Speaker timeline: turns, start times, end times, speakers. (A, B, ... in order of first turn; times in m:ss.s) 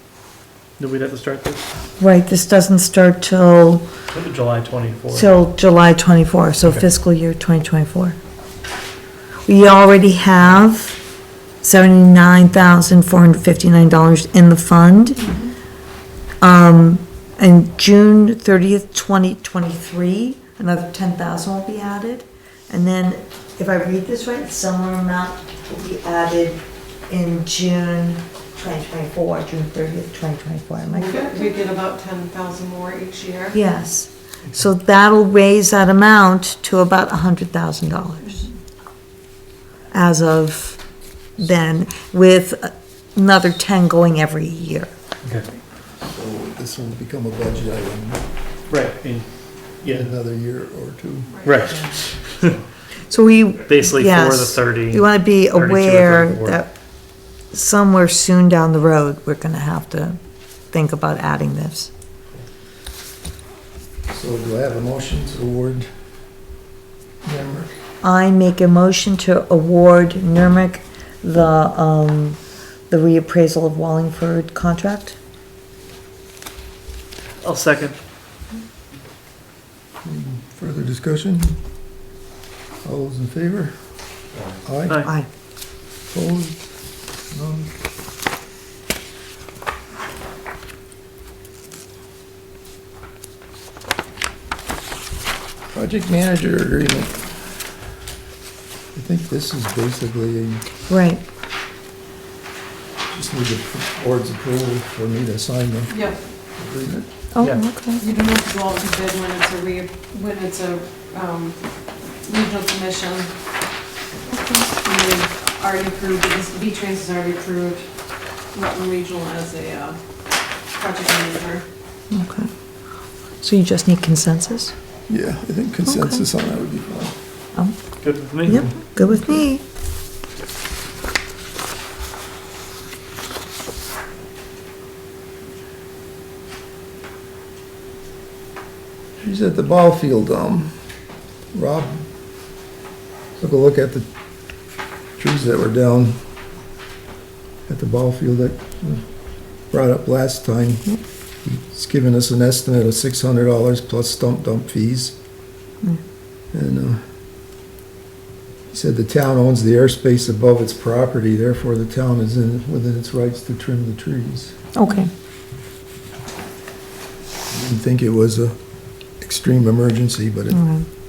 0:00.8-0:01.6 A
0:02.0-0:03.9 B
0:04.1-0:05.3 A
0:05.1-0:08.2 B
0:09.5-0:11.0 B
0:11.6-0:15.3 B
0:15.2-0:15.5 C
0:16.4-0:31.5 B
0:31.0-0:33.5 C
0:33.5-0:38.5 B
0:39.9-0:40.8 B
0:41.4-0:44.9 B
0:46.0-0:48.2 D
0:48.7-0:49.3 A
0:49.8-0:50.1 A
0:49.9-0:51.4 D
0:51.4-0:52.6 A
0:53.1-0:56.7 B
0:53.7-0:56.6 A
0:57.5-1:00.2 B
1:00.7-1:01.9 B
1:04.1-1:05.9 D
1:07.2-1:07.8 D
1:08.0-1:15.2 B
1:17.4-1:18.0 A
1:20.0-1:21.6 D
1:22.8-1:23.8 D
1:24.6-1:25.0 D
1:25.0-1:25.3 B
1:26.1-1:26.6 D
1:27.3-1:27.7 D
1:35.7-1:37.5 D
1:38.9-1:40.6 D
1:40.9-1:41.2 B
1:43.1-1:46.0 D
1:46.6-1:47.1 D
1:47.3-1:48.0 B
1:48.0-1:51.6 C
1:52.2-1:53.3 C
1:54.3-1:54.6 B
1:54.8-1:57.8 C
1:58.5-2:00.0 C
2:00.7-2:01.6 C
2:02.1-2:02.5 B
2:03.4-2:04.7 B
2:05.1-2:07.1 D
2:05.9-2:06.2 B
2:08.0-2:08.7 A
2:08.4-2:09.6 B
2:19.2-2:20.7 D
2:21.5-2:22.0 D
2:23.4-2:24.1 D
2:25.2-2:26.2 D
2:27.7-2:29.0 D
2:29.7-2:30.9 D
2:31.4-2:35.1 D
2:36.5-2:37.0 D
2:38.7-2:44.5 D
2:44.8-2:45.1 B
2:47.5-2:48.6 D
2:49.2-2:50.6 D
2:50.5-2:50.8 B